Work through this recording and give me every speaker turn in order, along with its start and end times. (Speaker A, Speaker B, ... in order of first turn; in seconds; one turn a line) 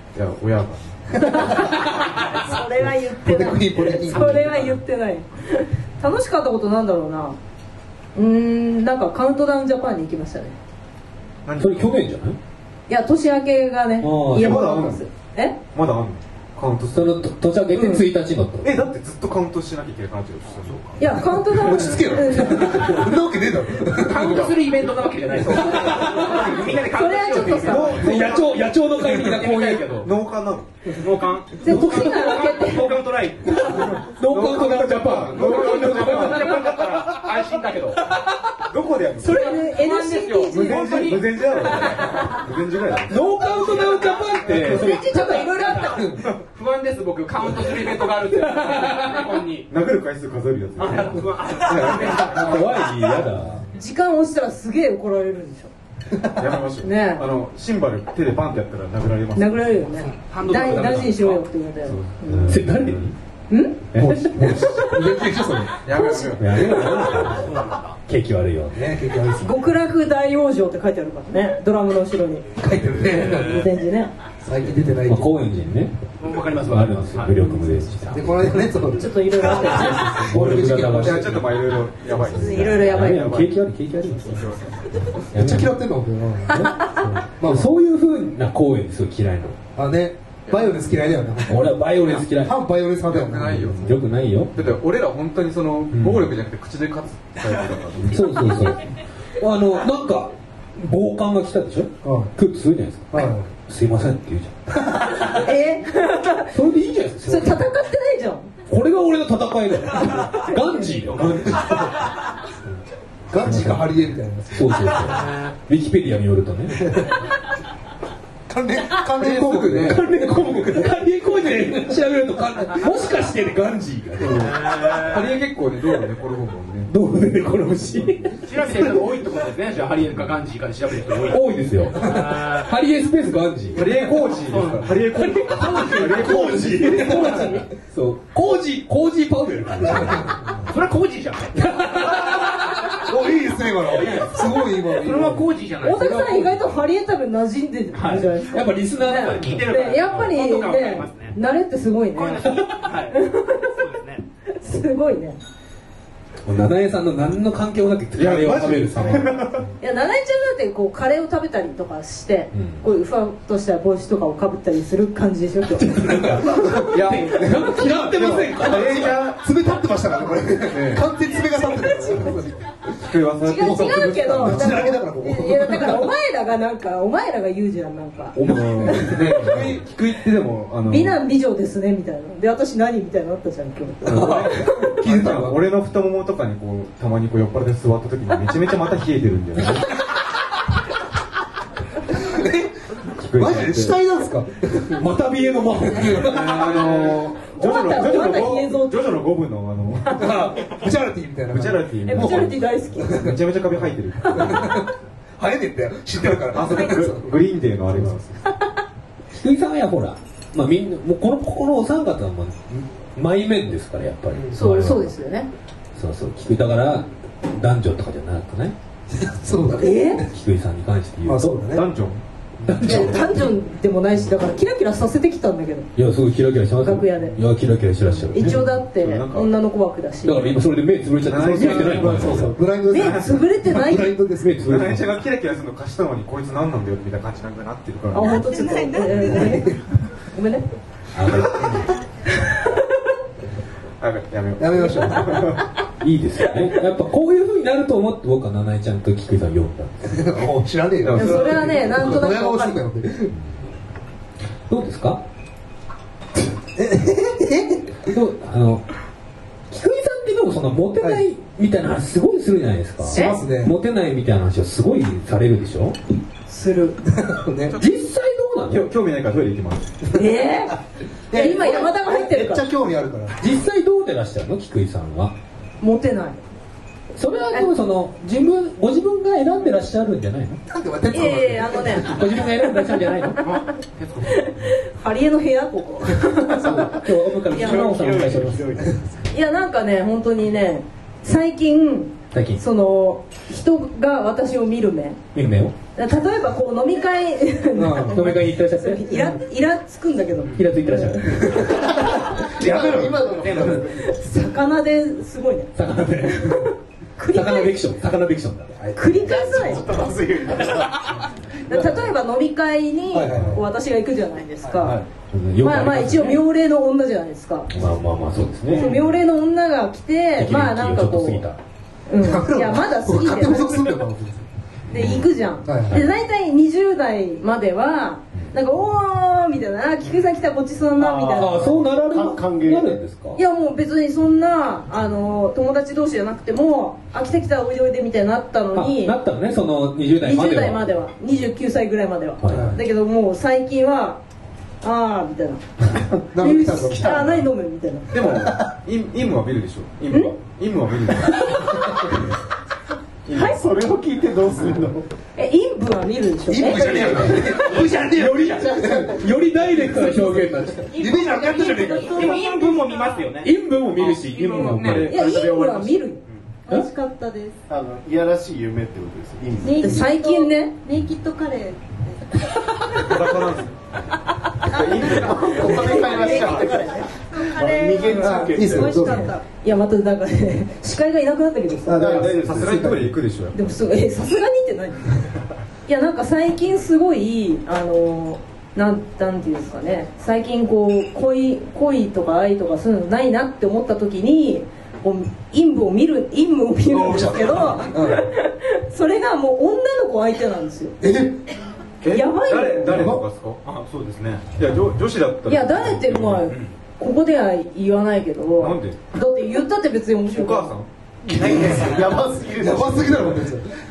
Speaker A: 0.1-1.7
Speaker B: 1.2-7.4
Speaker C: 2.9-4.5
Speaker B: 8.2-10.6
Speaker A: 11.4-11.9
Speaker D: 11.6-12.4
Speaker B: 12.9-15.6
Speaker D: 14.0-14.6
Speaker A: 14.3-15.1
Speaker A: 15.7-17.3
Speaker D: 16.9-18.8
Speaker B: 17.7-18.1
Speaker A: 18.6-21.0
Speaker B: 21.0-23.1
Speaker C: 21.3-24.5
Speaker E: 23.9-30.1
Speaker A: 24.1-24.6
Speaker D: 25.5-26.7
Speaker B: 26.9-28.0
Speaker A: 27.6-28.6
Speaker D: 28.0-29.9
Speaker C: 29.1-29.3
Speaker A: 29.9-30.7
Speaker E: 31.0-33.9
Speaker B: 31.6-33.0
Speaker D: 31.6-32.3
Speaker A: 33.6-36.7
Speaker D: 34.1-36.6
Speaker E: 34.9-38.0
Speaker A: 38.7-39.5
Speaker B: 39.2-41.1
Speaker E: 39.2-41.8
Speaker A: 40.5-43.4
Speaker B: 42.0-42.4
Speaker D: 43.1-45.3
Speaker E: 43.6-49.7
Speaker B: 44.6-46.2
Speaker D: 48.4-49.1
Speaker A: 49.7-52.5
Speaker E: 50.8-52.8
Speaker D: 52.2-53.6
Speaker C: 53.2-53.7
Speaker B: 53.7-55.7
Speaker C: 56.2-56.4
Speaker A: 56.4-59.9
Speaker B: 56.8-57.3
Speaker B: 59.4-62.6
Speaker E: 60.2-61.5
Speaker A: 61.8-62.9
Speaker D: 62.3-63.2
Speaker B: 63.5-65.0
Speaker A: 63.9-64.6
Speaker C: 64.0-65.8
Speaker A: 65.8-66.8
Speaker B: 65.9-66.4
Speaker D: 66.4-68.9
Speaker C: 66.6-67.0
Speaker E: 67.3-68.0
Speaker C: 68.7-69.7
Speaker B: 69.4-72.5
Speaker C: 72.6-73.6
Speaker E: 73.0-73.7
Speaker B: 73.4-74.1
Speaker C: 74.4-75.4
Speaker D: 75.0-76.0
Speaker E: 76.2-77.8
Speaker D: 76.6-78.5
Speaker C: 78.1-81.6
Speaker B: 78.9-80.2
Speaker D: 80.0-84.5
Speaker A: 80.8-83.6
Speaker B: 82.3-83.4
Speaker A: 84.1-85.1
Speaker D: 85.3-85.7
Speaker C: 85.3-87.7
Speaker D: 87.4-89.6
Speaker C: 89.8-93.8
Speaker A: 90.5-90.8
Speaker D: 91.5-92.6
Speaker A: 93.1-94.0
Speaker D: 93.7-94.7
Speaker A: 94.5-98.5
Speaker D: 95.9-96.3
Speaker D: 98.1-105.5
Speaker C: 102.0-102.3
Speaker C: 103.1-103.5
Speaker B: 105.4-106.6
Speaker D: 106.5-107.7
Speaker B: 107.2-108.5
Speaker D: 108.7-111.5
Speaker A: 111.1-111.9
Speaker C: 113.3-115.0
Speaker D: 113.4-113.9
Speaker D: 114.5-116.8
Speaker C: 116.8-117.1
Speaker C: 118.5-121.0
Speaker D: 119.2-124.6
Speaker A: 119.5-120.0
Speaker E: 124.7-125.2
Speaker A: 125.0-126.9
Speaker D: 126.9-128.4
Speaker E: 128.4-132.7
Speaker D: 131.3-133.9
Speaker C: 132.0-132.3
Speaker A: 133.7-137.1
Speaker E: 133.9-136.5
Speaker D: 135.2-140.4
Speaker C: 136.8-137.6
Speaker B: 137.1-137.6
Speaker C: 139.8-140.6
Speaker E: 140.6-142.0
Speaker D: 141.7-142.5
Speaker C: 143.0-146.7
Speaker E: 143.8-146.4
Speaker B: 145.8-153.7
Speaker E: 147.9-148.3
Speaker D: 148.5-150.2
Speaker E: 149.3-151.4
Speaker E: 152.1-154.2
Speaker B: 154.5-155.4
Speaker D: 156.5-159.3
Speaker A: 158.2-159.7
Speaker B: 159.8-166.8
Speaker D: 162.5-162.8
Speaker D: 165.8-169.2
Speaker A: 166.8-169.5
Speaker C: 169.0-173.1
Speaker A: 170.7-171.1
Speaker B: 171.4-172.6
Speaker A: 172.9-174.8
Speaker B: 173.4-179.2
Speaker C: 173.6-176.1
Speaker D: 178.4-179.7
Speaker A: 178.4-181.2
Speaker C: 178.7-179.8
Speaker B: 180.9-185.0
Speaker A: 184.1-189.9
Speaker C: 184.1-185.6
Speaker C: 192.1-192.7
Speaker A: 193.2-194.0
Speaker C: 193.3-195.1
Speaker D: 195.0-197.2
Speaker C: 195.8-197.1
Speaker A: 196.3-200.3
Speaker B: 197.5-199.2
Speaker B: 200.1-200.4
Speaker C: 200.2-203.4
Speaker A: 201.5-204.9
Speaker B: 202.0-203.3
Speaker B: 204.2-204.6
Speaker C: 204.3-207.3
Speaker A: 206.2-208.4
Speaker D: 209.3-215.1
Speaker B: 214.5-215.5
Speaker D: 215.9-218.8
Speaker C: 219.1-220.3
Speaker B: 219.8-220.2
Speaker D: 220.2-221.7
Speaker C: 221.2-221.9
Speaker A: 221.7-222.2
Speaker D: 222.7-223.2
Speaker C: 222.7-222.9
Speaker A: 222.8-223.2
Speaker B: 222.8-225.9
Speaker D: 226.0-228.6
Speaker B: 226.8-227.4
Speaker B: 228.3-230.6
Speaker A: 228.5-229.5
Speaker D: 230.2-232.6
Speaker A: 231.2-233.2
Speaker C: 231.5-234.6
Speaker B: 232.8-234.2
Speaker D: 234.4-235.1
Speaker A: 234.6-238.4
Speaker B: 238.1-239.8
Speaker F: 238.2-239.7
Speaker C: 239.3-239.8
Speaker B: 240.3-240.7
Speaker D: 241.1-241.9
Speaker B: 242.4-242.8
Speaker A: 244.0-245.6
Speaker C: 244.6-245.6
Speaker D: 246.0-250.1
Speaker C: 250.1-253.3
Speaker A: 251.0-252.2
Speaker B: 251.2-252.8
Speaker D: 254.7-255.2
Speaker C: 256.7-257.9
Speaker D: 258.1-258.9
Speaker D: 259.7-266.0
Speaker C: 261.0-261.3
Speaker C: 263.1-263.7
Speaker B: 263.1-263.4
Speaker B: 266.5-267.0
Speaker C: 267.1-267.8
Speaker D: 267.8-268.9
Speaker A: 268.7-270.1
Speaker B: 270.1-270.8
Speaker C: 271.3-273.4
Speaker B: 271.3-272.7
Speaker D: 273.4-275.4
Speaker B: 275.8-276.4
Speaker D: 277.2-280.6
Speaker C: 280.7-282.1
Speaker B: 281.1-282.1
Speaker D: 282.0-283.4
Speaker E: 283.5-284.3
Speaker B: 284.4-286.8
Speaker D: 286.5-288.8
Speaker G: 286.5-289.0
Speaker B: 287.5-287.9
Speaker B: 289.3-295.2
Speaker D: 292.3-292.6
Speaker D: 295.3-295.7
Speaker B: 296.0-301.5
Speaker C: 297.8-298.4
Speaker D: 298.1-299.4
Speaker D: 300.5-303.8
Speaker C: 301.4-301.9
Speaker G: 301.7-304.2
Speaker C: 302.6-303.3
Speaker B: 304.1-305.7
Speaker D: 305.8-306.7
Speaker B: 306.3-307.8
Speaker D: 307.3-310.1
Speaker B: 308.9-309.9
Speaker G: 309.2-312.1
Speaker B: 311.7-315.0
Speaker C: 313.1-313.7
Speaker C: 314.6-315.0
Speaker D: 315.3-316.4
Speaker B: 315.6-317.7
Speaker D: 317.7-319.0
Speaker B: 318.7-321.5
Speaker D: 320.4-321.6
Speaker B: 322.1-323.9
Speaker C: 322.2-324.5
Speaker D: 324.9-325.3
Speaker B: 324.9-331.8
Speaker C: 325.6-326.0
Speaker G: 331.0-333.0
Speaker D: 331.3-333.4
Speaker B: 333.4-339.2
Speaker D: 338.7-340.9
Speaker B: 340.2-344.2
Speaker D: 342.4-342.8
Speaker C: 342.5-342.8
Speaker B: 344.8-345.6
Speaker C: 346.3-347.5
Speaker B: 346.4-348.2
Speaker A: 348.1-351.9
Speaker C: 348.2-348.7
Speaker B: 350.1-350.4
Speaker B: 351.3-351.9
Speaker A: 353.3-353.6
Speaker B: 353.3-353.6
Speaker G: 353.5-355.1
Speaker B: 355.4-356.9
Speaker C: 356.5-360.1
Speaker E: 356.8-358.4
Speaker D: 356.8-360.9
Speaker G: 358.4-359.3
Speaker C: 360.9-362.3
Speaker B: 360.9-362.4
Speaker F: 360.9-363.3
Speaker E: 362.1-365.1
Speaker D: 363.4-365.1
Speaker A: 364.8-366.3
Speaker B: 365.1-366.2
Speaker F: 366.7-367.6
Speaker G: 367.7-370.1
Speaker F: 369.6-372.4
Speaker B: 369.8-370.8
Speaker A: 373.0-373.7
Speaker A: 374.6-376.8
Speaker G: 375.1-379.3
Speaker B: 375.5-377.1
Speaker F: 377.3-379.4
Speaker B: 378.1-378.8
Speaker C: 378.2-379.4
Speaker B: 379.5-382.4
Speaker C: 381.9-383.2
Speaker G: 381.9-383.0
Speaker A: 382.4-383.6
Speaker B: 383.5-385.2
Speaker B: 385.9-401.0
Speaker A: 396.9-397.9
Speaker C: 397.8-398.3
Speaker C: 401.0-401.4
Speaker A: 402.0-403.6
Speaker B: 402.1-403.1
Speaker C: 402.8-403.2
Speaker E: 403.6-404.5
Speaker A: 404.5-406.4
Speaker B: 405.5-410.7
Speaker A: 408.6-409.0
Speaker A: 410.2-410.9
Speaker G: 411.3-413.4
Speaker C: 411.3-413.7